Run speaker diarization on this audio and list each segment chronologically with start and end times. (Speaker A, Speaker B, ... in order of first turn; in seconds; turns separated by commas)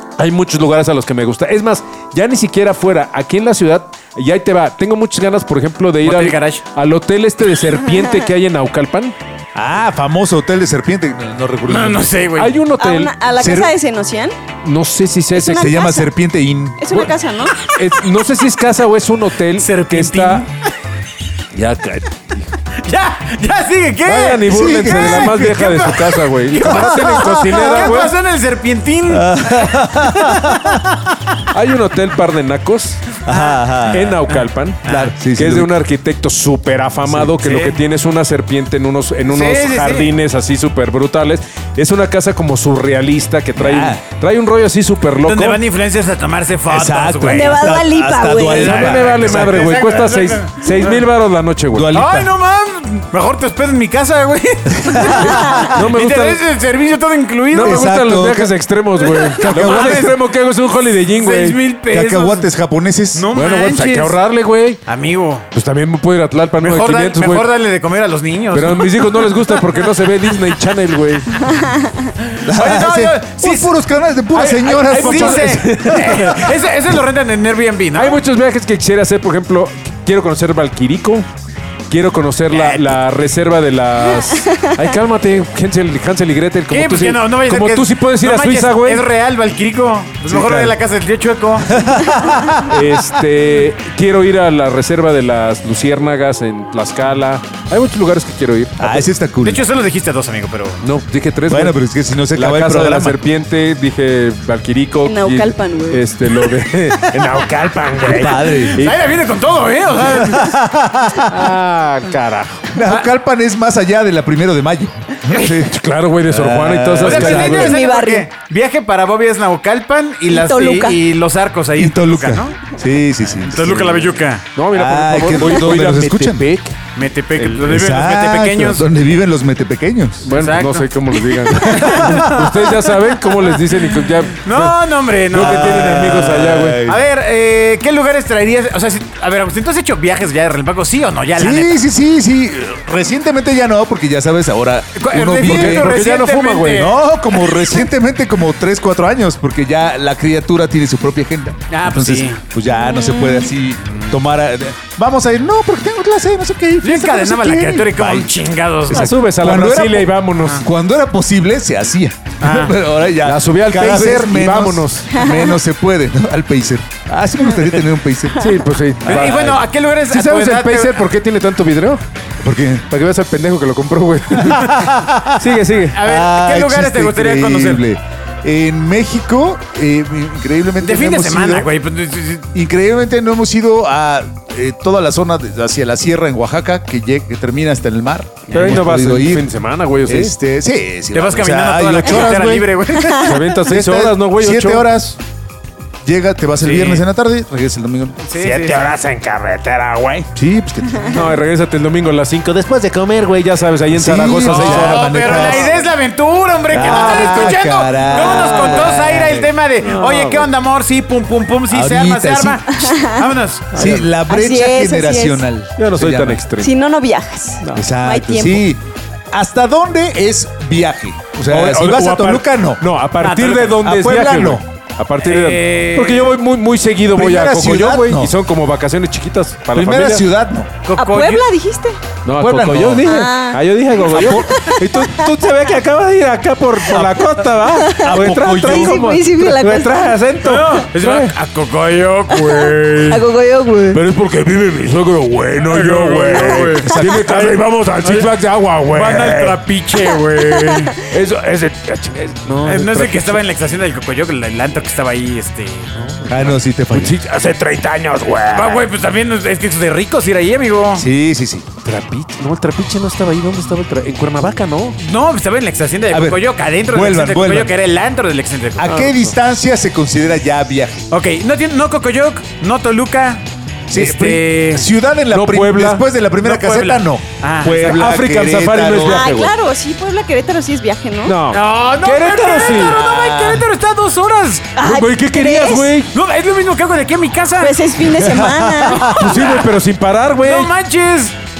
Speaker A: 0.2-9.2, Speaker B: 6.0-6.6, Speaker C: 7.8-8.3, Speaker D: 9.5-12.1, Speaker B: 11.7-12.5, Speaker A: 12.3-13.1, Speaker C: 12.8-14.3, Speaker D: 13.3-13.7, Speaker A: 14.6-15.7, Speaker C: 15.3-16.1, Speaker D: 15.6-16.9, Speaker C: 16.8-17.6, Speaker A: 17.7-20.4, Speaker B: 19.6-20.5, Speaker A: 21.5-22.5, Speaker B: 22.8-30.9, Speaker D: 24.1-25.8, Speaker A: 24.1-28.1, Speaker D: 26.6-28.0, Speaker D: 29.1-30.8, Speaker A: 31.5-33.2, Speaker D: 33.2-34.2, Speaker B: 33.2-33.7, Speaker A: 33.9-45.6, Speaker D: 34.8-35.7, Speaker B: 34.9-35.1, Speaker B: 37.3-37.8, Speaker B: 39.3-40.1, Speaker D: 43.5-44.0, Speaker B: 45.2-47.7, Speaker D: 46.7-49.7, Speaker C: 47.3-48.8, Speaker B: 48.5-51.0, Speaker A: 48.5-51.9, Speaker D: 51.7-52.3, Speaker B: 51.9-57.9, Speaker D: 54.8-55.8, Speaker C: 55.0-55.7, Speaker A: 55.6-56.4, Speaker A: 57.5-61.6, Speaker D: 57.6-58.5, Speaker B: 59.0-60.1, Speaker D: 59.4-60.1, Speaker B: 61.2-62.5, Speaker D: 61.9-63.3, Speaker B: 63.1-64.2, Speaker A: 63.3-64.8, Speaker B: 64.8-65.5, Speaker A: 65.5-67.5, Speaker B: 66.6-69.6, Speaker A: 68.5-71.3, Speaker C: 71.4-72.1, Speaker B: 72.4-73.7, Speaker D: 72.4-75.7, Speaker A: 74.3-76.5, Speaker B: 74.8-78.2, Speaker A: 78.0-81.3, Speaker A: 81.9-89.1, Speaker B: 82.5-83.0, Speaker C: 84.4-84.7, Speaker B: 86.7-91.9, Speaker D: 90.2-90.8, Speaker D: 91.7-92.9, Speaker A: 92.6-99.1, Speaker D: 98.8-99.6, Speaker B: 99.4-100.9, Speaker A: 100.8-109.0, Speaker D: 101.5-103.2, Speaker C: 105.0-106.1, Speaker D: 108.0-108.9, Speaker B: 108.7-110.5, Speaker D: 110.0-111.5, Speaker A: 111.3-112.7, Speaker D: 112.7-115.8, Speaker A: 115.5-117.8, Speaker D: 116.3-117.7, Speaker B: 117.0-122.6, Speaker C: 117.5-118.3, Speaker C: 120.3-121.0, Speaker D: 121.8-124.1, Speaker B: 123.2-124.4, Speaker A: 124.5-126.8, Speaker D: 124.7-126.5, Speaker B: 126.9-128.8, Speaker A: 127.3-127.7, Speaker D: 127.6-130.3, Speaker A: 130.2-134.7, Speaker B: 130.3-130.9, Speaker D: 131.5-132.6, Speaker B: 131.6-132.1, Speaker B: 134.4-136.1, Speaker A: 135.3-136.8, Speaker D: 135.3-137.0, Speaker B: 136.8-141.8, Speaker D: 141.3-145.9, Speaker B: 145.0-147.6, Speaker A: 145.4-146.9, Speaker D: 146.7-168.5, Speaker B: 151.7-152.4, Speaker C: 152.7-153.5, Speaker B: 156.8-159.1, Speaker A: 158.9-160.6, Speaker B: 162.4-162.8, Speaker A: 163.2-165.1, Speaker C: 165.1-165.6, Speaker A: 168.3-172.0, Speaker B: 169.0-171.1, Speaker D: 169.2-169.5, Speaker D: 172.4-172.8, Speaker A: 172.9-176.0, Speaker D: 174.4-175.4, Speaker B: 175.9-177.8, Speaker D: 176.0-181.7, Speaker B: 180.8-182.5, Speaker D: 182.5-189.5, Speaker B: 188.5-188.8, Speaker A: 188.5-190.3, Speaker D: 190.1-192.7, Speaker B: 191.1-193.4, Speaker C: 193.0-193.4, Speaker A: 193.2-194.9, Speaker D: 193.6-195.2, Speaker D: 196.0-198.2, Speaker B: 196.6-197.0, Speaker B: 198.3-198.9, Speaker A: 198.3-200.3, Speaker D: 200.3-201.3, Speaker A: 201.1-205.5, Speaker D: 203.9-205.9, Speaker B: 204.4-213.9, Speaker D: 206.7-209.5, Speaker A: 206.7-207.6, Speaker A: 208.5-208.8, Speaker A: 209.8-210.5, Speaker D: 211.7-212.6, Speaker C: 212.7-213.3, Speaker A: 213.7-214.1, Speaker D: 213.7-216.4, Speaker C: 214.3-215.4, Speaker A: 215.8-216.7, Speaker C: 216.6-218.7, Speaker D: 217.7-222.8, Speaker A: 221.4-230.2, Speaker B: 223.2-223.8, Speaker D: 223.8-224.6, Speaker B: 225.2-226.3, Speaker D: 227.1-228.3, Speaker D: 229.7-230.7, Speaker B: 230.8-231.5, Speaker C: 230.9-232.0, Speaker A: 232.2-241.3, Speaker D: 232.4-233.1, Speaker C: 233.0-235.3, Speaker D: 234.1-234.5, Speaker D: 236.9-237.3, Speaker C: 237.7-240.2, Speaker D: 237.9-239.0, Speaker B: 240.4-243.2, Speaker C: 242.3-244.0, Speaker A: 243.9-250.1, Speaker B: 245.7-248.3, Speaker D: 246.7-247.3, Speaker B: 248.9-250.9, Speaker A: 251.0-253.4, Speaker B: 252.6-255.9, Speaker A: 255.9-258.9, Speaker D: 256.2-257.2, Speaker B: 258.5-261.0, Speaker D: 260.9-261.6, Speaker A: 261.8-265.0, Speaker B: 265.0-269.1, Speaker D: 266.1-267.8, Speaker D: 268.8-271.1, Speaker A: 268.9-269.3, Speaker B: 271.1-274.9, Speaker D: 273.9-279.3, Speaker A: 275.3-276.1, Speaker B: 276.4-277.9, Speaker A: 277.6-279.5, Speaker C: 279.0-281.4, Speaker A: 281.2-283.6, Speaker B: 281.5-284.7, Speaker C: 282.6-282.9, Speaker C: 284.8-285.9, Speaker A: 284.8-286.1, Speaker B: 286.1-287.8, Speaker C: 287.6-289.1, Speaker D: 288.0-289.4, Speaker B: 288.8-289.7, Speaker A: 289.1-290.7, Speaker B: 290.4-291.3